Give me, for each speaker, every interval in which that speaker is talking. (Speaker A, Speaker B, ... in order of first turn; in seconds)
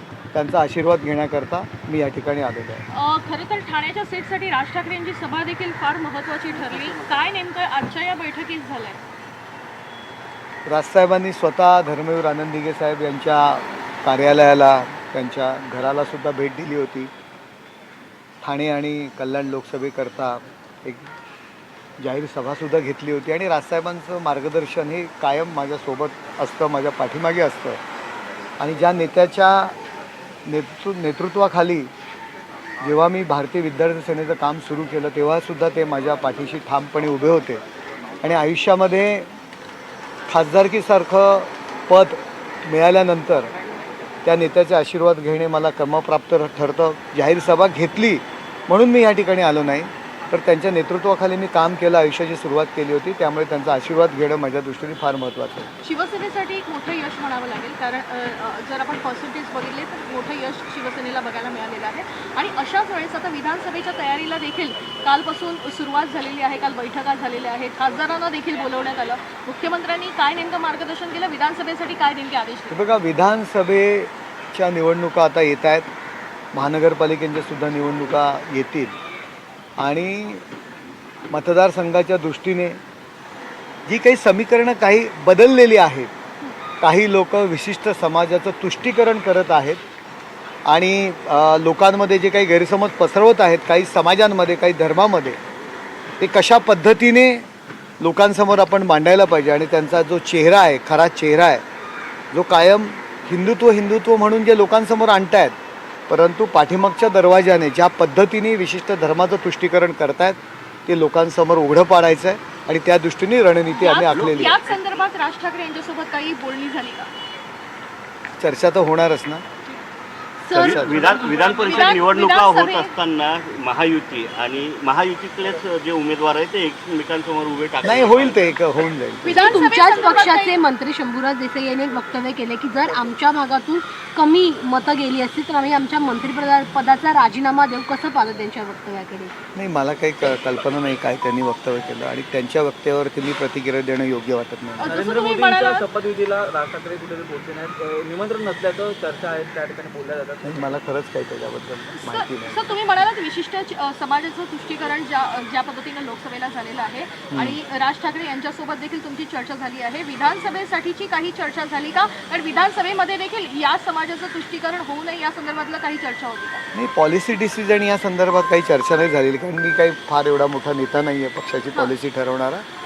Speaker A: 0.3-2.8, 10.7-17.1, 18.4-21.1, 22.0-27.8, 28.6-29.8, 30.5-31.9, 32.8-37.6, 38.2-39.3, 40.3-43.5, 44.2-55.7, 72.7-75.9, 76.5-79.0, 79.8-80.5, 81.3-82.8, 83.9-86.1, 86.8-89.8, 90.7-95.4, 96.2-97.5, 98.0-101.6, 102.3-105.6, 106.1-114.6, 118.4-119.4, 120.5-121.1, 127.8-129.4, 139.6-145.0, 150.4-152.8, 157.3-157.6, 166.7-172.7
Speaker B: 2.9-9.0, 55.8-72.7, 113.7-117.1, 120.5-123.0, 129.2-130.6, 144.8-145.9, 151.9-166.6
Speaker C: 6.6-7.1, 120.5-128.7
Speaker D: 129.2-139.3
Speaker E: 144.8-150.7